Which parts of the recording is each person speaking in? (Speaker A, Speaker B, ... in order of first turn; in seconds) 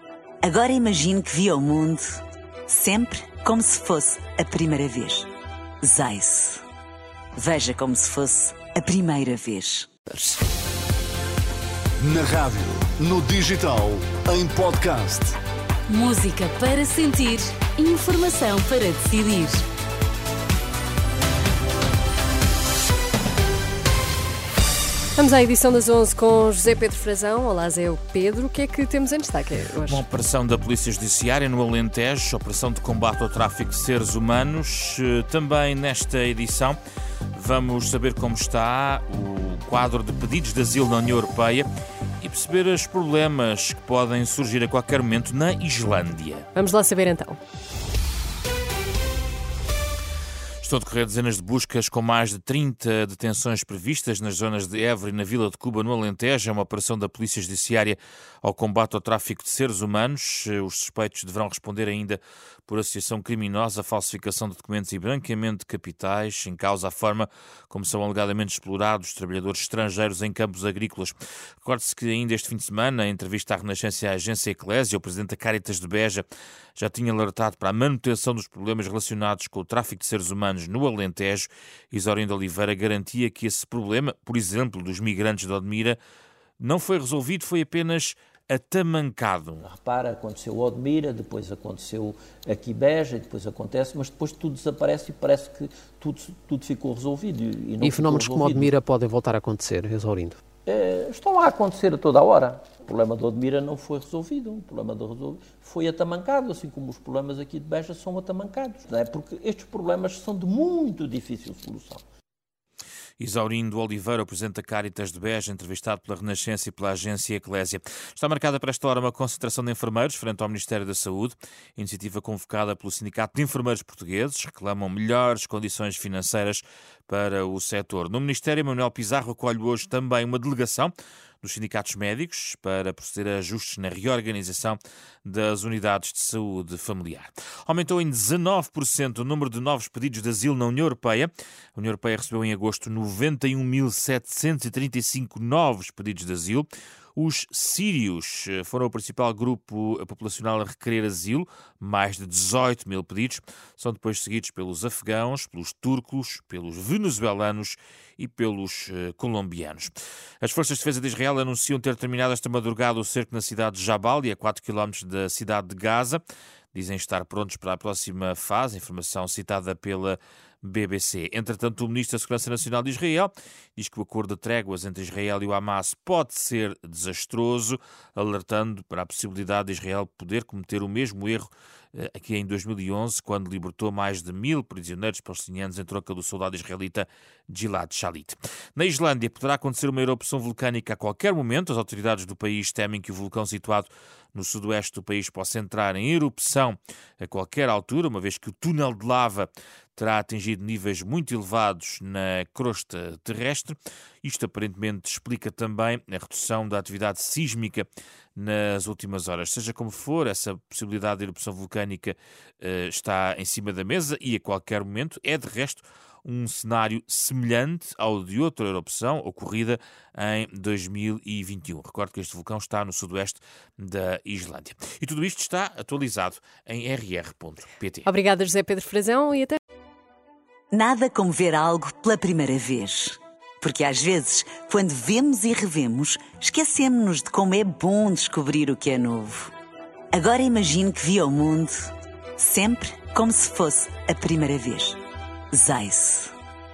Speaker A: 0.4-5.3, 5.8-6.6, 7.3-9.9, 230.7-239.5, 240.1-245.0, 245.5-246.3
Speaker B: 12.0-15.4
Speaker C: 16.0-17.4, 17.9-19.5
Speaker D: 25.2-30.0, 46.5-47.4, 228.0-229.6
Speaker E: 29.9-36.8, 37.3-41.7, 42.2-46.5, 50.6-86.0, 86.6-89.6, 113.2-166.2, 166.7-228.1
Speaker F: 89.6-98.7, 100.7-112.0
Speaker G: 97.8-100.4